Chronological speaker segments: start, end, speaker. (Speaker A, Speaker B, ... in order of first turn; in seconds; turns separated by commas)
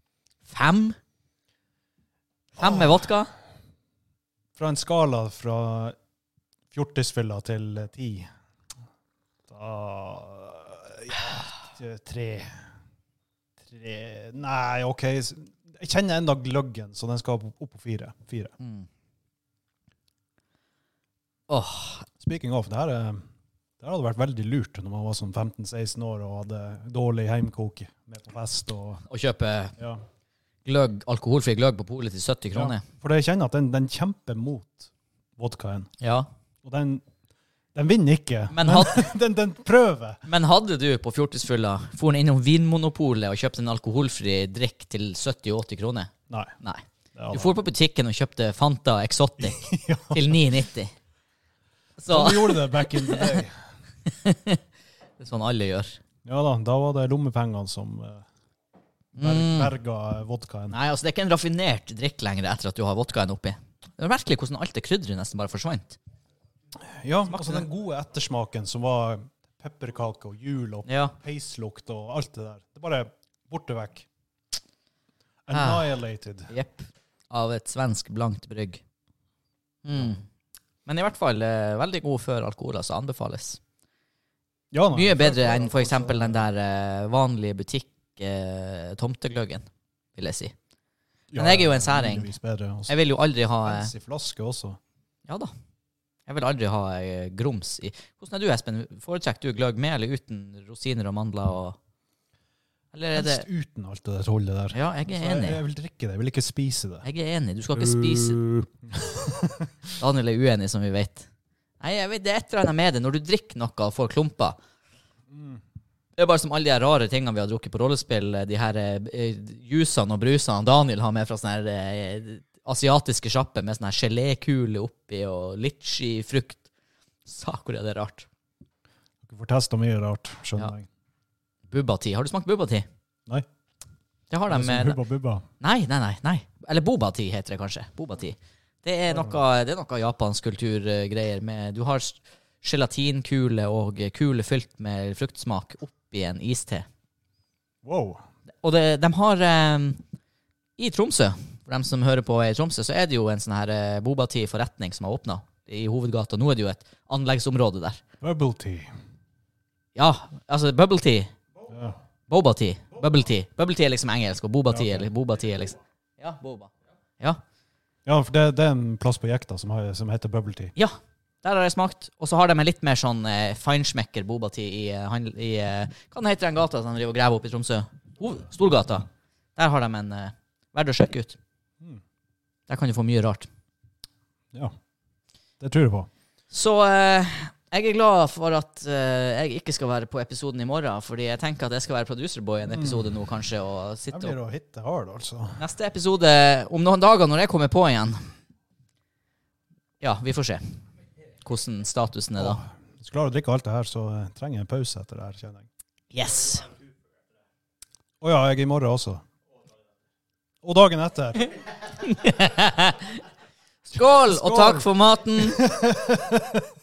Speaker A: 0.5-0.9, Speaker A: 2.6-3.3, Speaker B: 2.6-2.9, Speaker B: 4.5-6.0, Speaker B: 6.7-8.3, Speaker B: 9.5-12.7, Speaker B: 13.6-18.5, Speaker A: 18.6-18.9, Speaker A: 21.5-22.1, Speaker B: 22.2-23.2, Speaker B: 23.8-29.0, Speaker A: 29.1-29.7, Speaker A: 30.6-32.8, Speaker B: 32.5-35.9, Speaker A: 36.0-36.3, Speaker B: 36.6-37.0, Speaker B: 37.7-40.2, Speaker A: 38.5-39.1, Speaker A: 40.2-50.9, Speaker B: 46.3-46.5, Speaker B: 47.1-47.6, Speaker B: 49.4-50.4, Speaker A: 52.0-53.4, Speaker B: 52.1-53.6, Speaker A: 54.0-54.6, Speaker A: 55.2-56.0, Speaker B: 56.2-58.2, Speaker A: 59.1-59.7, Speaker B: 59.2-60.8, Speaker A: 60.7-66.0, Speaker B: 66.8-74.0, Speaker A: 67.3-67.7, Speaker A: 70.9-71.1, Speaker B: 75.5-76.5, Speaker A: 75.5-75.9, Speaker A: 76.5-78.8, Speaker A: 79.8-80.2, Speaker A: 80.8-83.6, Speaker B: 84.7-86.5, Speaker A: 84.9-89.6, Speaker A: 90.2-90.5, Speaker B: 91.3-92.9, Speaker A: 91.3-92.3, Speaker A: 92.9-93.9, Speaker B: 93.6-94.8, Speaker A: 96.3-101.8, Speaker A: 102.9-103.4, Speaker B: 103.1-107.0, Speaker A: 104.7-105.6, Speaker A: 107.0-108.4, Speaker B: 107.7-109.7, Speaker A: 110.0-111.3, Speaker A: 111.8-114.6, Speaker B: 115.3-115.6, Speaker A: 116.2-126.6, Speaker A: 127.2-128.3, Speaker B: 129.2-130.9, Speaker A: 131.7-132.8, Speaker A: 134.3-135.0, Speaker B: 134.5-135.4, Speaker A: 135.6-146.8, Speaker B: 139.1-139.4, Speaker B: 147.8-148.2, Speaker A: 148.6-150.0, Speaker A: 150.8-158.0, Speaker B: 158.2-158.9, Speaker A: 159.9-161.3, Speaker B: 161.7-162.0, Speaker A: 162.3-167.4, Speaker B: 164.7-165.1, Speaker B: 168.1-170.7, Speaker A: 170.8-181.4, Speaker A: 182.7-183.5, Speaker B: 185.6-186.1, Speaker A: 186.5-194.3, Speaker B: 192.7-193.1, Speaker B: 194.1-195.6, Speaker A: 195.6-198.2, Speaker A: 200.0-200.8, Speaker A: 201.4-202.6, Speaker B: 202.4-205.7, Speaker A: 206.1-206.7, Speaker B: 208.2-209.2, Speaker B: 210.6-211.5, Speaker A: 211.9-213.2, Speaker A: 213.8-215.6, Speaker B: 214.0-216.6